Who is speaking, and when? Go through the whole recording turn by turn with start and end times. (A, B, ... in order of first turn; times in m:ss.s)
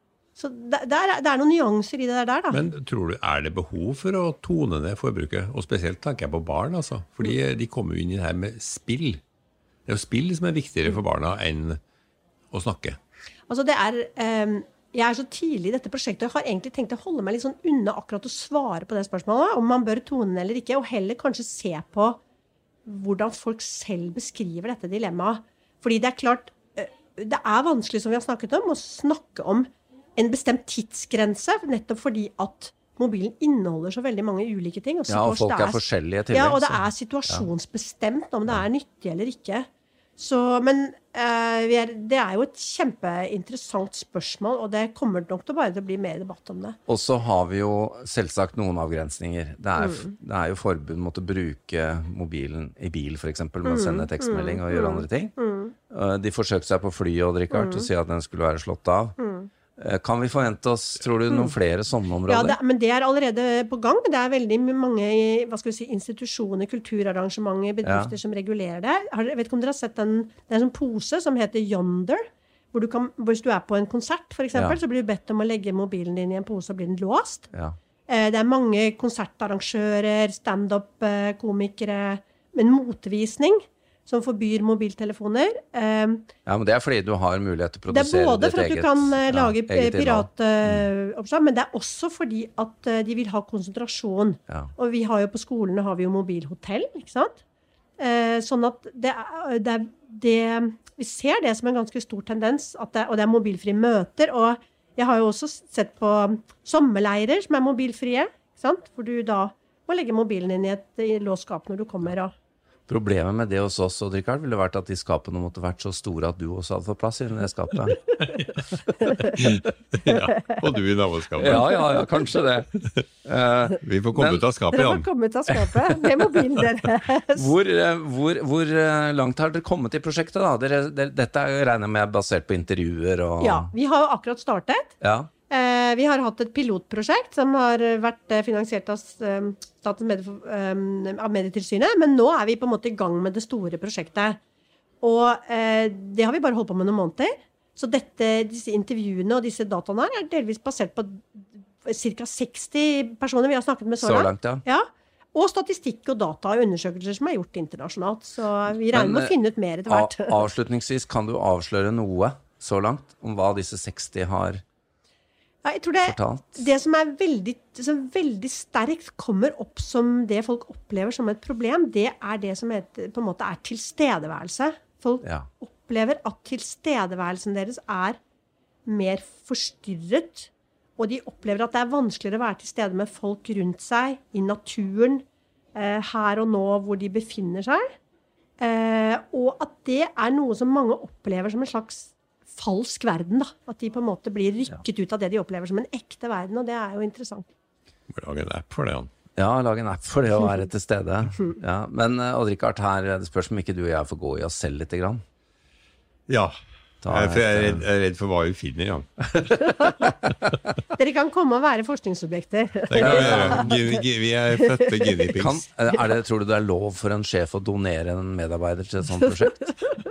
0:00.4-0:02.6 A
0:02.5-0:09.2 B
0:09.9-0:11.8 B
0:12.5-0:13.0 B
0:13.5-0:22.2 A
0:22.9-0:46.8 A
0:35.1-0:37.5 C
0:46.9-0:55.3 C
0:49.8-0:50.1 A
0:53.6-0:55.7 A
0:55.9-0:59.2 C
0:57.5-0:57.9 A
0:59.2-0:59.5 A
0:59.8-1:02.6 C
1:01.3-1:01.5 A
1:02.3-1:17.5 A
1:07.8-1:08.1 C
1:14.5-1:14.8 C
1:18.1-1:26.3 A
1:26.5-1:30.9 C
1:27.9-1:37.4 A
1:38.0-1:52.3 A
1:52.9-1:58.1 C
1:58.3-1:58.6 B
1:59.2-2:01.9 B
2:01.4-2:02.7 C
2:01.5-2:01.8 A
2:03.2-2:04.4 C
2:03.8-2:05.1 B
2:04.7-2:07.5 A
2:05.5-2:06.5 C
2:07.4-2:13.7 C
2:13.4-2:14.9 A
2:15.0-2:15.3 C
2:15.5-2:24.4 A
2:25.0-2:40.5 A
2:34.0-2:34.6 C
2:38.9-2:39.4 C
2:39.9-2:44.6 C
2:45.6-2:58.2 A
2:46.0-2:46.6 C
2:58.8-3:05.2 A
3:05.8-3:07.9 A
3:08.6-3:17.5 A
3:18.1-3:19.1 B
3:19.4-3:25.2 C
3:26.3-3:26.5 B
3:27.0-3:27.9 C
3:27.0-3:30.4 B
3:30.9-3:33.8 A
3:32.9-3:35.6 B
3:33.0-3:33.7 C
3:34.8-3:35.1 A
3:35.4-3:39.7 C
3:39.2-3:40.0 A